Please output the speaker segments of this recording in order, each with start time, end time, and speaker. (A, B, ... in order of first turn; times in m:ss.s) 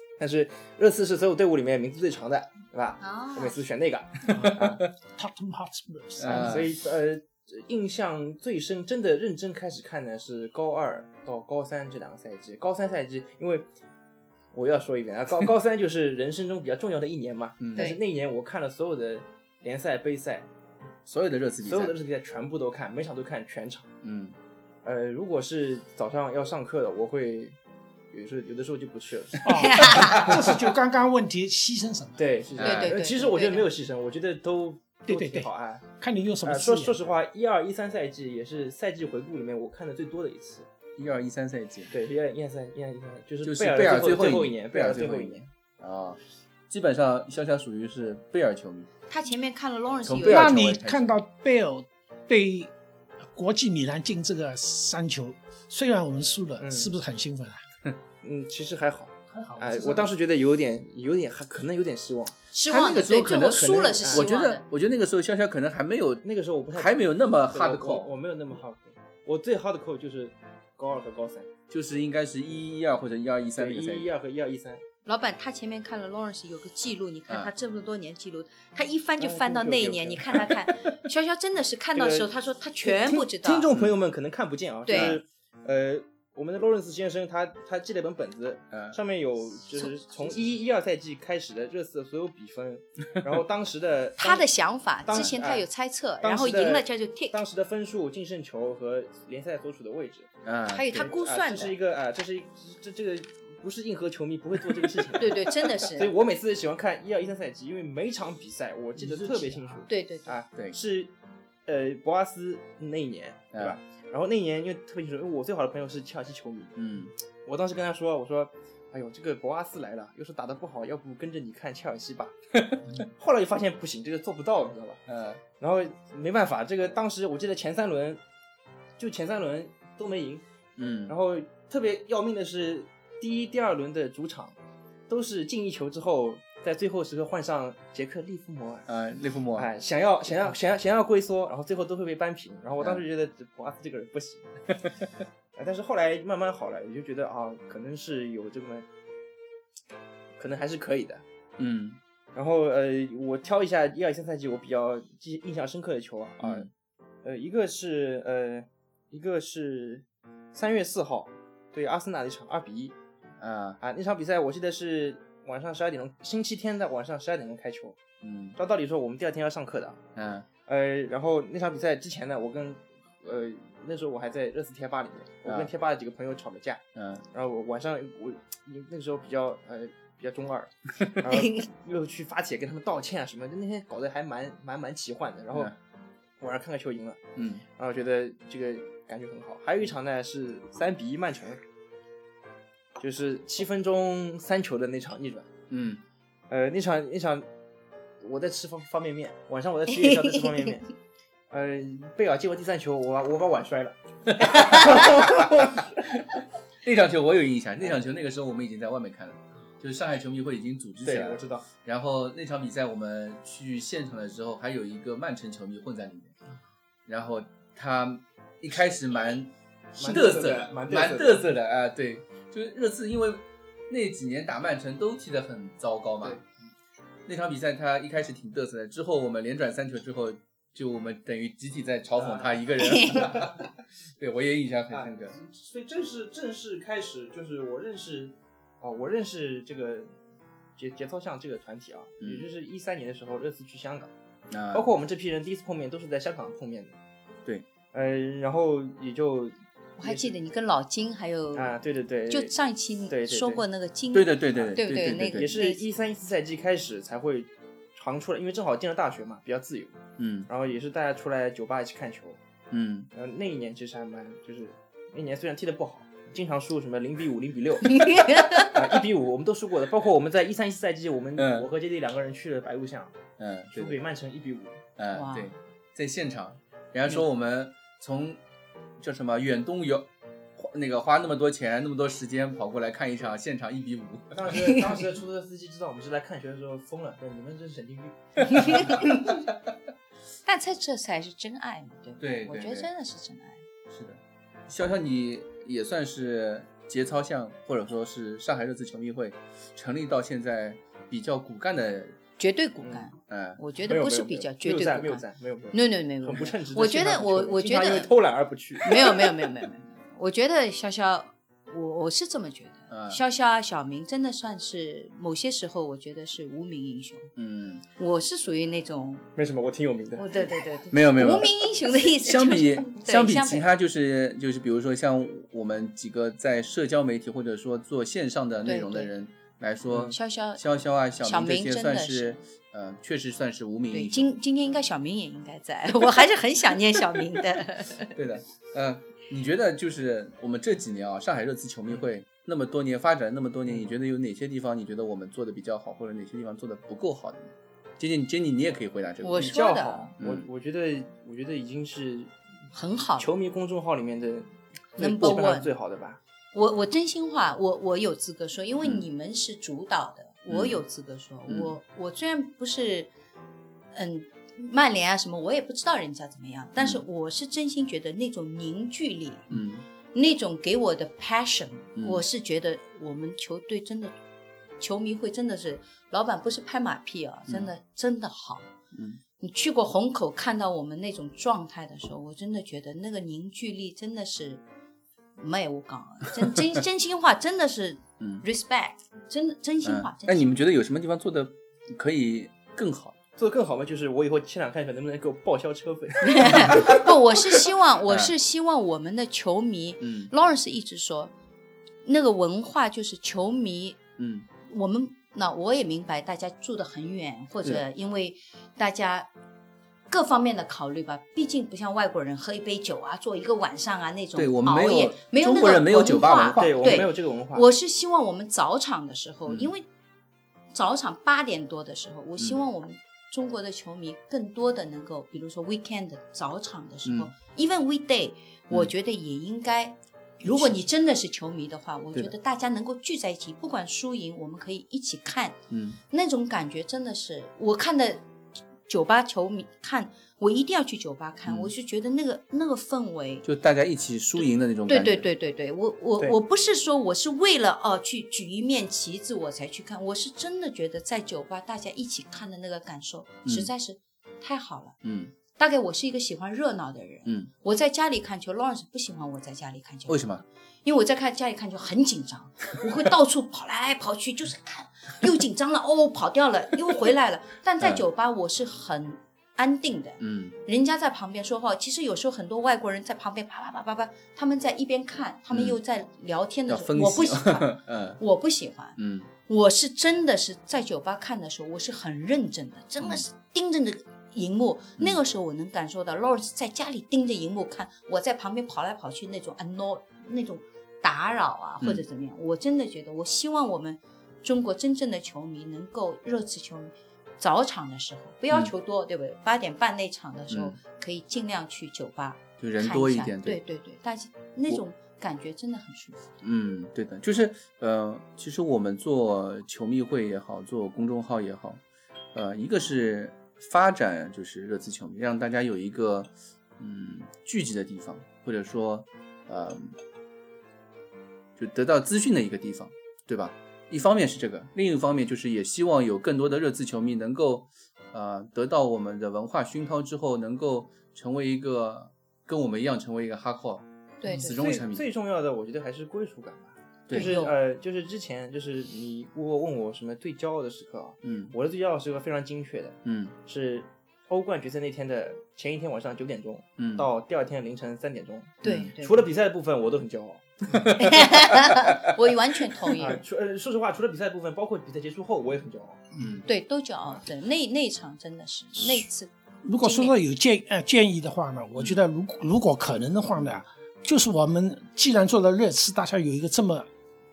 0:00.2-0:04.8 A
0:03.0-0:03.6 B
0:04.3-0:04.6 C
0:04.3-0:04.6 D
0:05.2-0:06.7 C
0:06.2-0:06.7 D
0:06.3-0:13.7 A
0:14.5-0:20.5 A
0:17.6-0:17.9 D
0:21.1-0:22.0 D
0:21.6-0:23.9 A
0:24.0-0:24.4 D
0:24.8-0:27.6 A
0:28.1-0:29.6 A
0:29.4-0:32.3 C
0:29.6-0:30.3 B
0:30.0-0:30.3 D
0:30.3-0:30.6 A
0:32.2-0:35.8 A
0:32.6-0:33.0 D
0:32.6-0:33.7 B
0:35.1-0:37.0 C
0:36.4-0:40.7 A
0:41.0-0:41.9 D
0:41.9-0:45.5 A
0:43.4-0:46.2 D
0:46.7-0:48.9 D
0:49.1-0:50.7 B
0:50.1-0:51.1 D
0:50.3-0:52.7 C
0:53.3-0:57.6 C
0:56.6-0:56.9 A
0:58.2-1:04.3 A
0:59.3-1:00.1 C
1:02.5-1:04.6 B
1:02.7-1:08.1 D
1:06.2-1:11.5 A
1:11.7-1:14.1 D
1:13.6-1:14.8 A
1:15.1-1:23.7 B
1:19.2-1:20.5 A
1:22.0-1:22.3 A
1:22.8-1:34.5 A
1:23.7-1:24.0 D
1:24.9-1:25.2 B
1:24.9-1:25.2 D
1:28.7-1:29.0 D
1:34.2-1:37.4 B
1:35.1-1:35.7 A
1:36.2-1:40.3 A
1:40.4-1:41.1 D
1:40.7-1:41.8 B
1:40.9-1:51.1 A
1:45.2-1:46.1 B
1:49.0-1:49.6 D
1:49.9-1:50.4 B
1:51.7-1:56.7 A
1:56.8-1:57.1 D
1:57.4-2:02.4 A
2:02.6-2:03.0 D
2:02.9-2:05.0 A
2:05.1-2:05.4 D
2:05.6-2:08.2 A
2:09.0-2:10.4 A
2:10.8-2:11.2 D
2:11.1-2:14.6 A
2:15.1-2:18.9 A
2:18.9-2:19.7 D
2:19.6-2:24.6 A
2:22.8-2:23.0 D
2:25.6-2:28.9 A
2:30.4-2:31.2 A
2:31.6-2:32.0 D
2:32.4-2:36.7 A
2:36.4-2:36.7 D
2:37.2-2:43.0 A
2:43.4-2:43.8 D
2:43.8-2:48.0 A
2:48.2-2:48.6 D
2:48.6-2:50.0 A
2:50.2-2:50.5 D
2:50.7-3:05.8 A
2:55.4-2:55.7 D
2:57.0-2:57.2 D
3:01.3-3:01.7 B
3:06.4-3:07.2 A
3:07.4-3:07.6 D
3:07.8-3:11.6 A
3:13.0-3:15.5 A
3:15.7-3:16.0 D
3:16.5-3:17.5 A
3:18.2-3:20.9 A
3:21.5-3:25.8 A
3:24.4-3:25.7 D
3:26.8-3:36.4 D
3:31.0-3:31.7 A
3:37.1-3:46.4 D
3:40.0-3:41.5 A
3:47.3-3:55.4 D
3:52.2-3:53.6 A
3:52.8-3:53.2 B
3:54.9-4:00.2 A
4:00.8-4:04.1 A
4:02.2-4:02.5 D
4:04.5-4:04.9 D
4:04.7-4:07.0 A
4:07.9-4:10.4 A
4:10.0-4:15.8 B
4:11.5-4:12.5 A
4:13.1-4:13.6 A
4:14.1-4:15.5 D
4:14.5-4:22.4 A
4:20.2-4:20.5 D
4:22.7-4:23.1 D
4:23.1-4:33.2 A
4:27.8-4:28.8 B
4:31.4-4:31.7 D
4:33.4-4:34.0 D
4:33.7-4:34.8 A
4:35.0-4:38.4 D
4:35.1-4:35.6 B
4:39.0-4:44.7 D
4:44.3-4:49.0 A
4:48.4-4:49.5 B
4:50.4-4:53.6 B
4:52.2-4:52.9 D
4:53.9-5:02.2 D
5:02.4-5:08.1 B
5:02.8-5:03.1 A
5:03.3-5:03.6 D
5:03.8-5:09.4 A
5:08.8-5:17.3 B
5:12.9-5:13.2 D
5:17.4-5:17.8 D
5:18.0-5:19.3 B
5:19.4-5:20.3 A
5:20.2-5:23.6 B
5:20.9-5:21.5 D
5:22.0-5:34.3 D
5:28.6-5:29.1 B
5:29.9-5:30.2 A
5:30.1-5:30.6 B
5:31.2-5:32.4 B
5:33.9-5:38.1 B
5:38.2-5:49.6 D
5:49.2-5:50.1 B
5:49.4-5:52.3 A
5:50.2-5:50.5 D
5:52.7-5:53.3 B
5:53.2-5:56.2 A
5:55.0-5:55.7 B
5:56.5-6:03.1 B
6:00.5-6:00.8 D
6:01.5-6:01.8 D
6:03.9-6:09.6 B
6:09.5-6:09.8 D
6:10.1-6:14.2 B
6:12.0-6:12.2 D
6:14.8-6:18.7 B
6:18.9-6:19.2 D
6:19.4-6:24.6 B
6:25.4-6:30.5 B
6:28.2-6:28.4 D
6:29.8-6:33.2 D
6:33.4-6:37.0 A
6:36.2-6:41.3 B
6:36.5-6:37.0 D
6:38.1-6:38.3 D
6:40.0-6:40.3 D
6:42.0-6:44.0 B
6:44.2-6:44.5 D
6:44.6-6:49.3 B
6:50.1-6:59.9 B
6:54.4-6:57.1 D
6:56.6-6:57.7 A
7:00.7-7:15.6 B
7:07.0-7:07.3 D
7:10.4-7:10.8 D
7:15.7-7:16.0 D
7:16.1-7:18.2 B
7:18.9-7:23.4 B
7:21.5-7:21.7 D
7:23.4-7:25.3 D
7:24.9-7:35.0 B
7:35.0-7:35.3 D
7:35.5-8:26.3 B
7:40.1-7:40.4 D
7:50.2-7:50.6 D
7:55.5-7:55.8 D
7:56.7-7:58.2 D
7:59.0-7:59.3 D
8:20.5-8:20.8 D
8:22.6-8:23.6 D
8:26.4-8:31.8 D
8:32.3-8:40.0 D
8:41.6-8:55.0 D
8:54.2-8:54.6 B
8:54.5-9:10.8 A
8:57.1-8:57.3 D
8:57.1-8:57.5 B
9:01.2-9:01.5 D
9:03.0-9:03.4 D
9:06.8-9:07.1 D
9:08.6-9:09.3 B
9:08.6-9:08.9 D
9:10.7-9:12.0 D
9:11.0-9:13.2 B
9:13.0-9:16.0 A
9:16.2-9:16.4 D
9:16.4-9:20.2 B
9:19.6-9:26.9 C